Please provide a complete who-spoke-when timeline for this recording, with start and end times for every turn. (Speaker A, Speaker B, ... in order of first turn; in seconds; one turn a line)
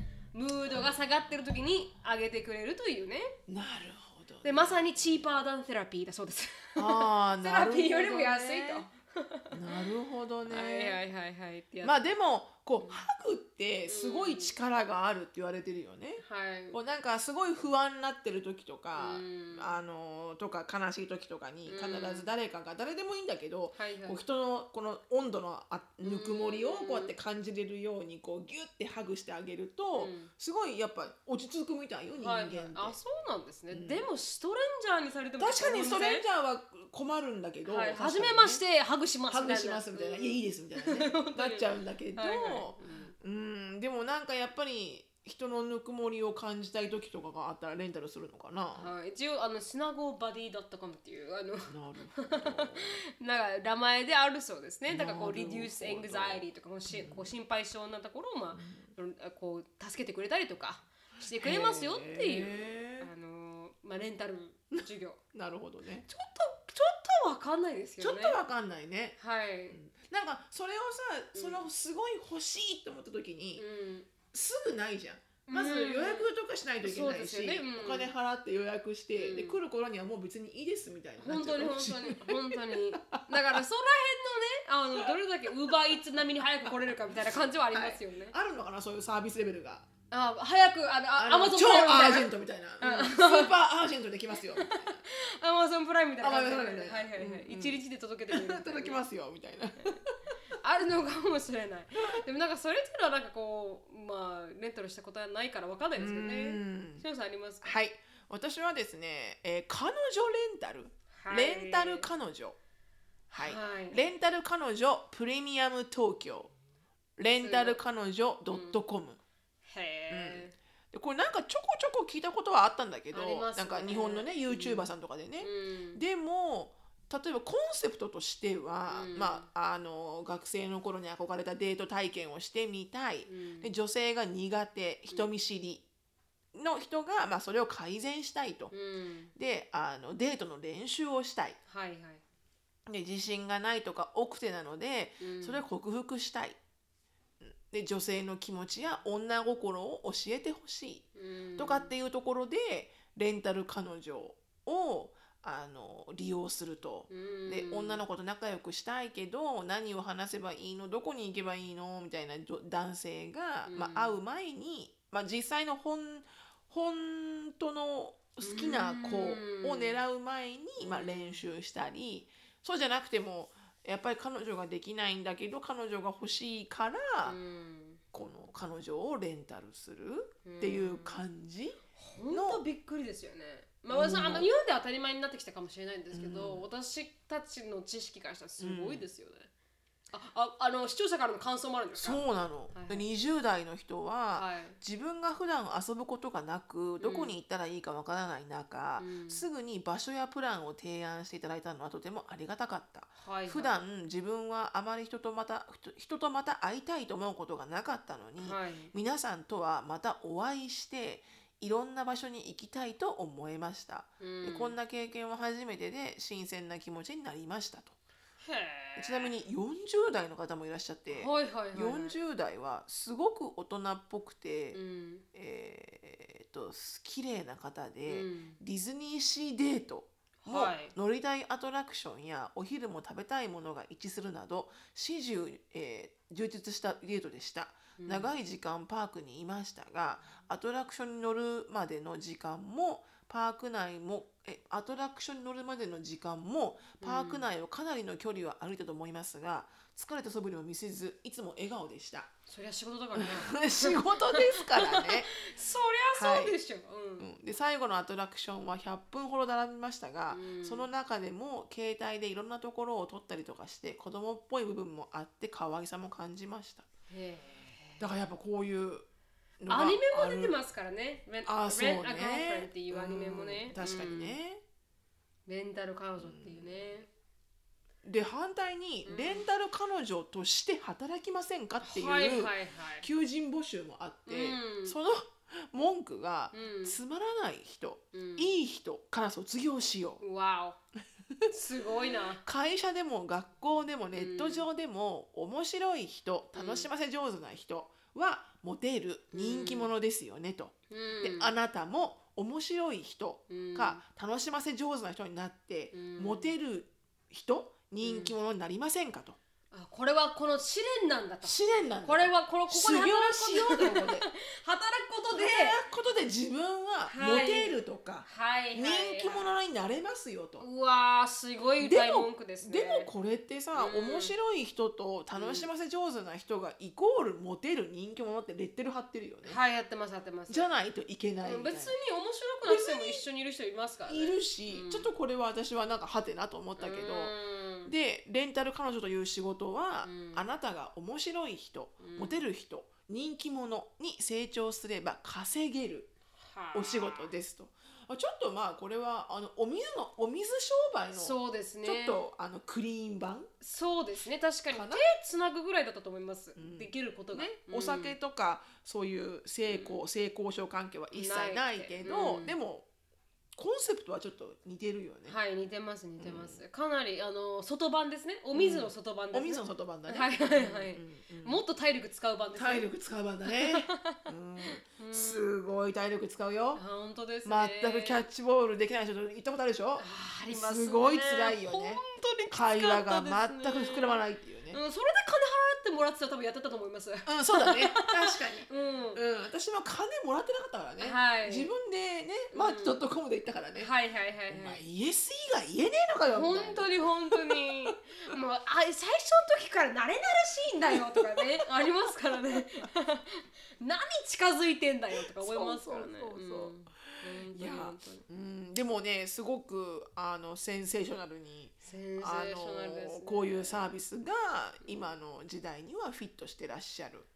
Speaker A: 0.3-3.4
Speaker B: 3.5-4.9
Speaker A: 4.4-9.8
Speaker B: 6.8-8.9
Speaker B: 9.5-11.0
Speaker A: 10.5-12.0
Speaker B: 11.8-33.0
Speaker A: 13.9-14.5
Speaker A: 16.2-16.8
Speaker A: 19.0-19.7
Speaker A: 21.7-22.3
Speaker A: 23.8-24.2
Speaker A: 26.0-27.1
Speaker A: 30.0-30.3
Speaker A: 32.2-36.2
Speaker B: 33.7-34.1
Speaker B: 35.4-38.6
Speaker A: 37.7-43.1
Speaker B: 39.3-48.9
Speaker A: 48.8-65.2
Speaker B: 51.7-53.0
Speaker B: 54.9-57.3
Speaker B: 58.6-58.9
Speaker B: 61.2-63.1
Speaker B: 65.3-66.1
Speaker A: 66.1-68.4
Speaker B: 68.0-69.2
Speaker A: 69.2-69.8
Speaker B: 69.7-73.6
Speaker A: 71.3-71.6
Speaker A: 73.6-74.1
Speaker B: 74.3-83.6
Speaker A: 75.5-76.3
Speaker A: 76.8-78.1
Speaker A: 79.2-79.6
Speaker A: 81.2-88.3
Speaker B: 85.0-86.0
Speaker B: 86.7-86.9
Speaker B: 87.7-89.9
Speaker A: 90.1-92.3
Speaker B: 91.2-95.0
Speaker A: 92.8-93.5
Speaker A: 94.5-99.0
Speaker B: 96.2-100.2
Speaker A: 100.6-107.7
Speaker B: 106.0-107.0
Speaker B: 107.6-112.6
Speaker A: 111.1-112.1
Speaker B: 113.3-116.5
Speaker A: 113.4-114.1
Speaker B: 117.2-119.2
Speaker A: 117.4-117.8
Speaker A: 118.5-118.8
Speaker A: 119.7-120.5
Speaker B: 120.1-135.8
Speaker A: 123.1-126.0
Speaker A: 128.9-129.5
Speaker A: 133.3-133.7
Speaker B: 136.5-138.7
Speaker A: 138.7-139.3
Speaker B: 139.3-141.6
Speaker A: 141.7-142.2
Speaker B: 142.9-146.6
Speaker A: 145.2-145.6
Speaker B: 147.4-151.1
Speaker A: 151.2-151.9
Speaker B: 151.6-177.4
Speaker A: 157.1-158.0
Speaker A: 163.7-164.2
Speaker A: 168.4-170.0
Speaker A: 170.8-171.4
Speaker A: 177.2-178.0
Speaker B: 178.1-181.8
Speaker A: 180.4-181.2
Speaker A: 182.0-189.5
Speaker B: 182.3-182.6
Speaker B: 183.9-184.5
Speaker B: 186.1-186.7
Speaker B: 188.6-189.1
Speaker A: 190.1-192.2
Speaker B: 192.0-217.9
Speaker A: 192.7-193.1
Speaker A: 194.3-194.8
Speaker A: 197.0-197.3
Speaker A: 199.0-199.4
Speaker A: 203.2-203.8
Speaker A: 208.4-208.9
Speaker A: 214.2-214.8
Speaker A: 218.4-219.3
Speaker B: 219.0-224.8
Speaker A: 221.1-222.2
Speaker A: 224.7-225.2
Speaker B: 225.3-252.3
Speaker A: 228.1-228.6
Speaker A: 230.4-230.9
Speaker A: 238.0-238.3
Speaker A: 247.0-247.5
Speaker A: 252.5-257.3
Speaker B: 253.2-255.3
Speaker B: 256.1-256.6
Speaker B: 257.2-266.9
Speaker A: 260.3-260.9
Speaker A: 267.1-268.1
Speaker B: 268.0-269.1
Speaker B: 269.6-270.6
Speaker A: 269.7-274.4
Speaker B: 271.4-274.6
Speaker A: 275.5-277.1
Speaker B: 276.2-277.0
Speaker B: 278.0-290.2
Speaker A: 279.1-279.4
Speaker A: 281.8-283.1
Speaker A: 284.3-285.0
Speaker A: 286.5-287.0
Speaker A: 288.1-288.5
Speaker A: 290.2-290.8
Speaker A: 291.5-292.4
Speaker B: 292.0-309.4
Speaker A: 294.1-294.7
Speaker A: 296.6-296.9
Speaker A: 299.3-299.9
Speaker A: 300.9-301.5
Speaker A: 303.5-304.0
Speaker A: 305.9-306.6
Speaker A: 308.0-308.3
Speaker A: 309.7-315.8
Speaker B: 311.4-314.3
Speaker B: 315.3-320.6
Speaker A: 317.1-319.5
Speaker A: 320.6-323.1
Speaker B: 321.8-329.6
Speaker A: 323.8-324.3
Speaker A: 325.4-325.7
Speaker A: 329.4-330.7
Speaker B: 330.5-331.9
Speaker A: 331.4-335.1
Speaker B: 332.6-333.2
Speaker B: 334.1-346.1
Speaker A: 336.8-337.9
Speaker A: 340.0-340.5
Speaker A: 342.0-342.4
Speaker A: 346.4-347.3
Speaker B: 346.7-353.5
Speaker A: 351.1-352.2
Speaker A: 353.6-358.1
Speaker B: 354.7-355.1
Speaker B: 356.6-362.9
Speaker A: 359.7-360.0
Speaker A: 361.1-362.6
Speaker B: 363.6-365.4
Speaker A: 365.3-372.9
Speaker B: 366.2-366.6
Speaker B: 368.5-371.6
Speaker B: 372.6-376.8
Speaker A: 373.5-375.5
Speaker A: 376.8-378.2
Speaker B: 377.4-384.8
Speaker A: 380.0-384.2
Speaker A: 384.7-389.2
Speaker B: 387.3-393.9
Speaker A: 391.0-391.7
Speaker A: 392.5-393.0
Speaker A: 393.8-394.8
Speaker B: 394.5-397.9
Speaker A: 396.3-408.3
Speaker B: 400.8-402.6
Speaker B: 405.2-406.7
Speaker B: 407.5-417.3
Speaker A: 411.8-413.9